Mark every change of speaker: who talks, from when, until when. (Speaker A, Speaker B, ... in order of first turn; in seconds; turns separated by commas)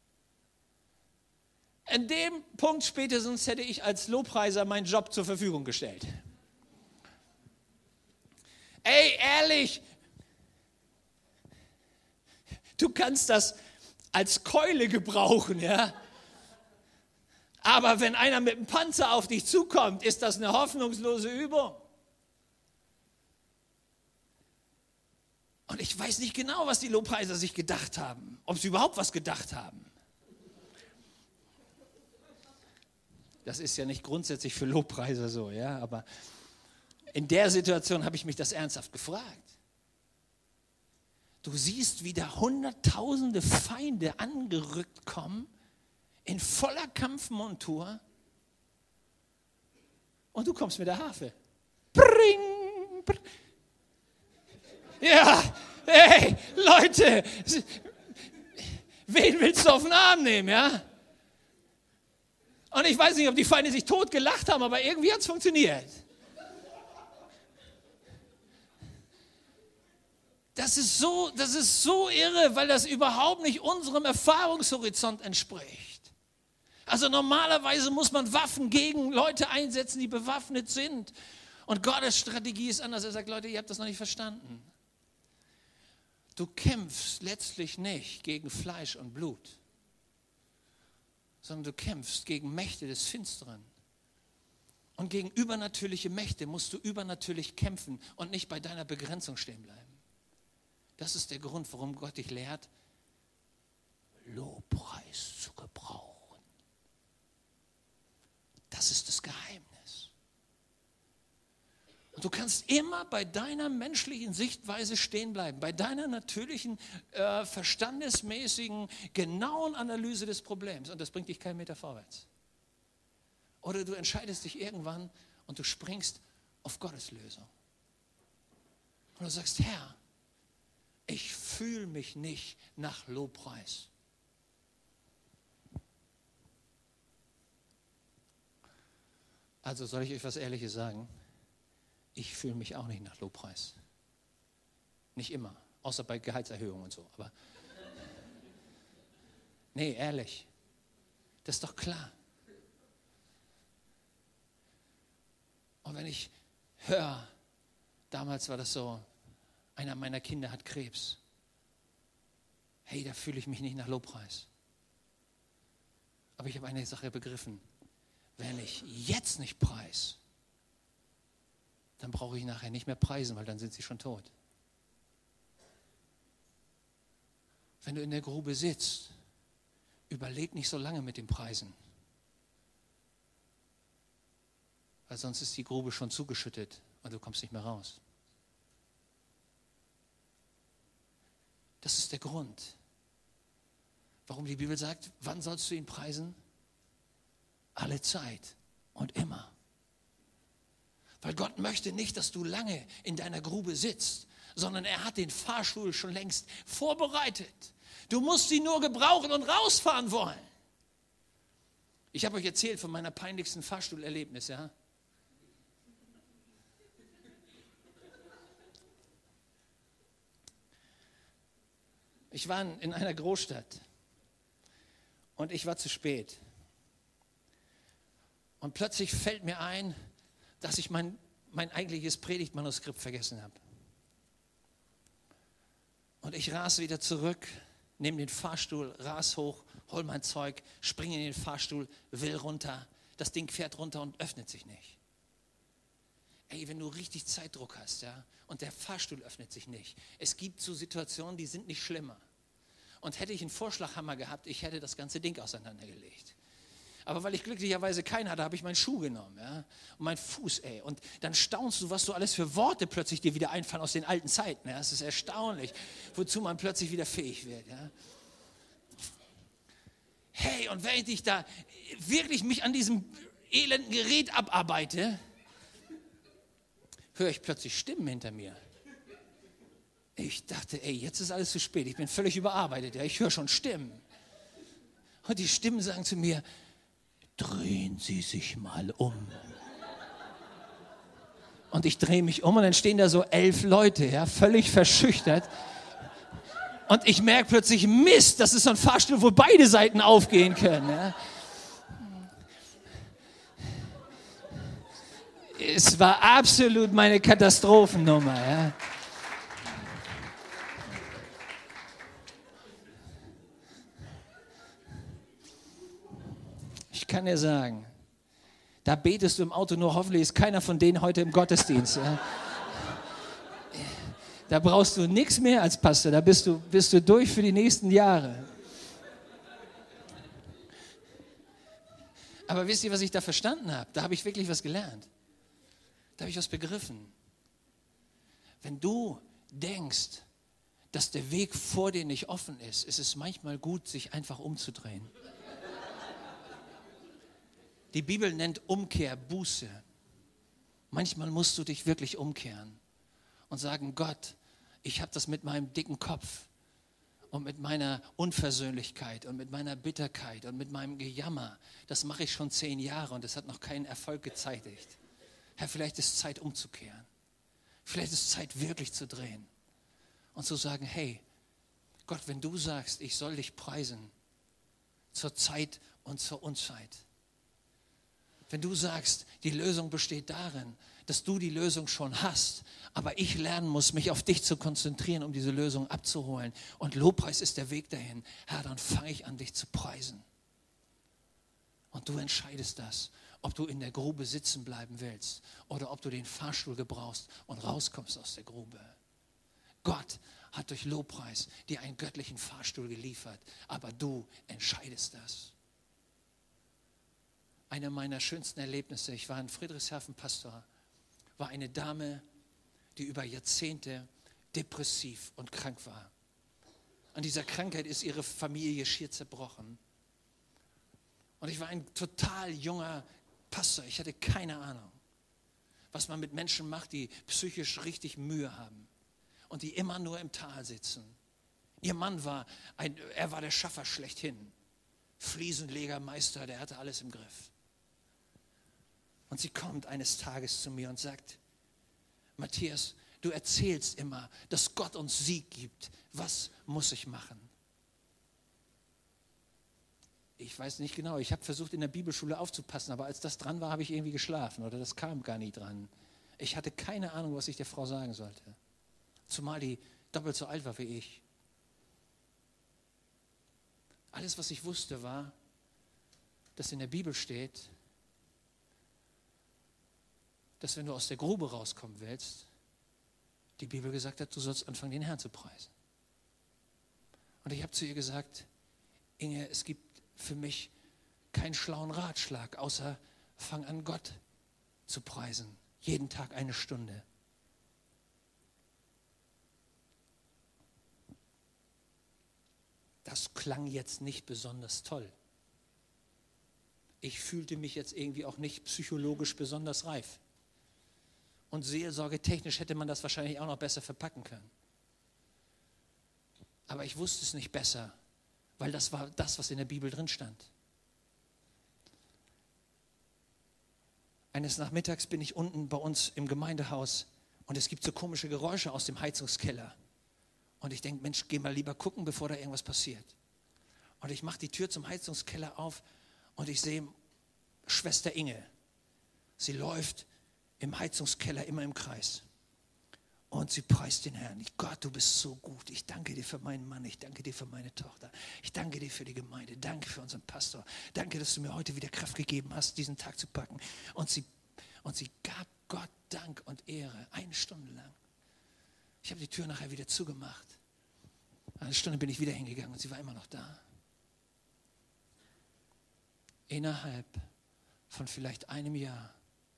Speaker A: 1.9-6.1, Speaker A: 8.8-9.8, Speaker A: 12.8-13.6, Speaker A: 14.1-15.9, Speaker A: 17.6-21.8, Speaker A: 25.7-29.9, Speaker A: 33.4-36.0, Speaker A: 37.1-39.5, Speaker A: 41.4-45.5, Speaker A: 46.2-48.0, Speaker A: 50.3-51.3, Speaker A: 51.9-53.2, Speaker A: 55.0-57.9, Speaker A: 58.6-60.8, Speaker A: 62.7-66.0, Speaker A: 70.5-76.1, Speaker A: 76.9-81.1, Speaker A: 81.7-84.7, Speaker A: 86.3-89.6, Speaker A: 91.4-93.7, Speaker A: 95.0-100.0, Speaker A: 101.0-102.7, Speaker A: 104.2-106.4, Speaker A: 108.7-110.1, Speaker A: 112.1-122.3, Speaker A: 123.6-127.5, Speaker A: 129.2-130.0, Speaker A: 131.1-133.9, Speaker A: 139.6-141.1, Speaker A: 142.1-143.8, Speaker A: 145.1-147.3, Speaker A: 149.7-150.5, Speaker A: 151.4-152.1, Speaker A: 155.8-157.3, Speaker A: 158.1-159.1, Speaker A: 159.8-161.2, Speaker A: 162.8-164.5, Speaker A: 166.4-167.6, Speaker A: 168.4-170.2, Speaker A: 172.0-174.3, Speaker A: 177.8-179.1, Speaker A: 180.1-181.7, Speaker A: 185.1-188.0, Speaker A: 191.8-192.8, Speaker A: 194.3-196.4, Speaker A: 197.8-199.5, Speaker A: 201.2-210.5, Speaker A: 212.1-214.7, Speaker A: 222.3-223.8, Speaker A: 225.3-226.4, Speaker A: 228.6-230.0, Speaker A: 230.6-233.6, Speaker A: 236.2-245.0, Speaker A: 246.5-252.2, Speaker A: 253.0-256.4, Speaker A: 257.1-267.9, Speaker A: 270.3-275.2, Speaker A: 277.1-278.6, Speaker A: 280.1-284.0, Speaker A: 285.2-286.4, Speaker A: 287.4-289.4, Speaker A: 291.7-295.5, Speaker A: 296.9-301.1, Speaker A: 305.5-308.8, Speaker A: 316.9-317.9, Speaker A: 318.8-323.0, Speaker A: 323.7-328.5, Speaker A: 332.5-335.1, Speaker A: 336.2-337.1, Speaker A: 338.6-340.2, Speaker A: 340.9-345.1, Speaker A: 347.9-349.8, Speaker A: 350.9-352.8, Speaker A: 353.5-356.5, Speaker A: 357.3-365.0, Speaker A: 365.6-367.1, Speaker A: 367.8-369.5, Speaker A: 370.3-371.2, Speaker A: 372.1-374.1, Speaker A: 375.1-377.1, Speaker A: 378.5-390.2, Speaker A: 391.9-398.9, Speaker A: 399.8-405.5, Speaker A: 407.7-410.6, Speaker A: 411.4-412.2, Speaker A: 412.9-416.1, Speaker A: 417.1-419.8, Speaker A: 421.4-425.0, Speaker A: 425.9-428.9, Speaker A: 429.5-431.2, Speaker A: 431.8-434.5, Speaker A: 435.2-437.5, Speaker A: 439.3-441.4, Speaker A: 442.4-447.5, Speaker A: 450.4-458.6, Speaker A: 459.3-461.2, Speaker A: 464.1-465.4, Speaker A: 466.6-467.7, Speaker A: 470.6-472.5, Speaker A: 473.6-475.7, Speaker A: 477.4-478.5, Speaker A: 479.2-480.7, Speaker A: 481.3-484.2, Speaker A: 484.9-487.0, Speaker A: 493.0-495.1, Speaker A: 497.0-500.2, Speaker A: 501.5-504.5, Speaker A: 506.7-507.9, Speaker A: 508.6-510.5, Speaker A: 514.3-519.8, Speaker A: 520.6-523.1, Speaker A: 524.0-525.8, Speaker A: 526.4-526.9, Speaker A: 527.6-528.5, Speaker A: 529.4-530.1, Speaker A: 530.6-532.2, Speaker A: 533.3-544.3, Speaker A: 544.8-548.0, Speaker A: 549.0-550.6, Speaker A: 551.6-553.6, Speaker A: 556.5-557.2, Speaker A: 557.9-559.1